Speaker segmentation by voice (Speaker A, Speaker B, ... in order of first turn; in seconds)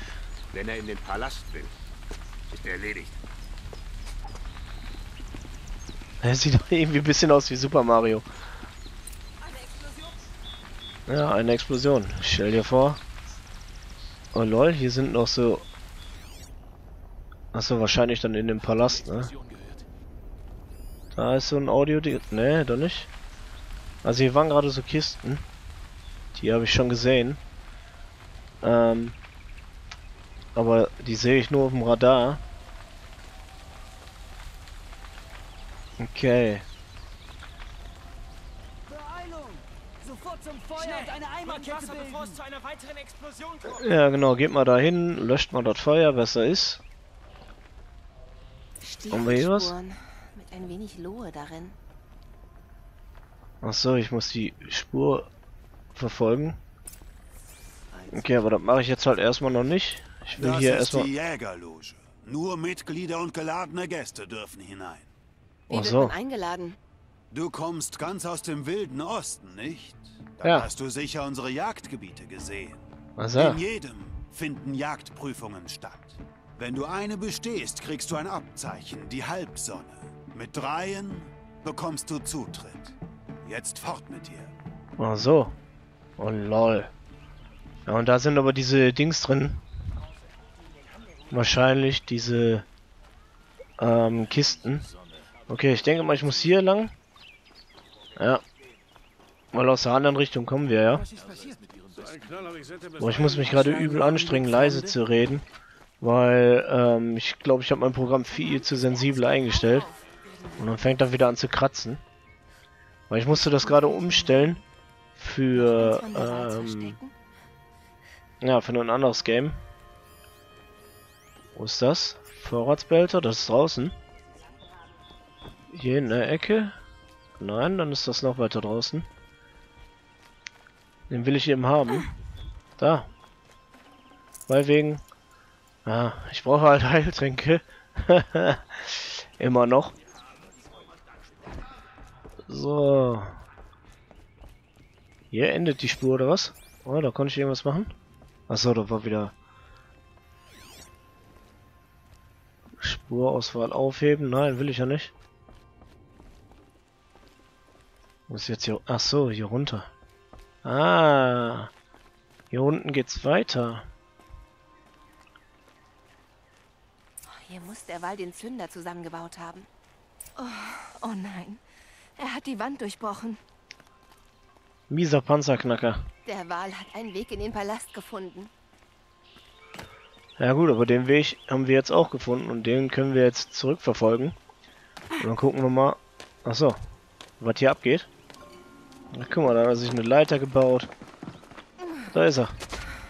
Speaker A: 0.5-1.7, 2.5-3.2
Speaker B: 6.2-8.2, 11.1-13.0, 14.3-15.7, 17.5-19.3, 21.1-23.1, 24.0-25.5, 26.4-27.4, 28.6-29.2, 30.6-32.4, 36.0-36.6, 43.6-46.8, 49.1-49.7, 53.6-55.3, 56.0-56.6, 58.1-61.1, 65.7-66.2, 70.4-70.7, 73.2-73.6, 85.0-85.5, 86.2-86.9, 87.9-89.6, 91.3-92.7, 93.8-94.8, 95.5-96.9, 98.2-98.4, 99.5-101.1, 103.0-105.5, 106.0-109.9, 110.6-112.0, 113.1-114.6, 115.2-117.0, 118.4-119.6, 121.5-124.0, 125.7-126.8, 127.4-129.1, 131.1-132.1, 132.8-133.1, 134.5-135.0, 135.8-139.9, 142.5-143.4, 145.3-147.9, 148.5-149.3, 152.8-155.1, 158.3-159.9, 160.6-161.7, 162.5-163.9, 174.9-176.1, 180.4-184.4, 185.2-186.8, 187.4-188.1, 189.1-190.9, 192.1-192.5
Speaker C: 19.0-19.8, 40.8-43.6
Speaker D: 38.9-42.4, 60.3-65.1, 67.3-84.5, 100.9-102.7
Speaker E: 48.8-51.8, 65.7-66.8, 108.3-110.5, 113.3-114.5, 115.5-117.1, 167.3-169.7, 170.4-171.6, 172.2-173.4, 176.2-178.5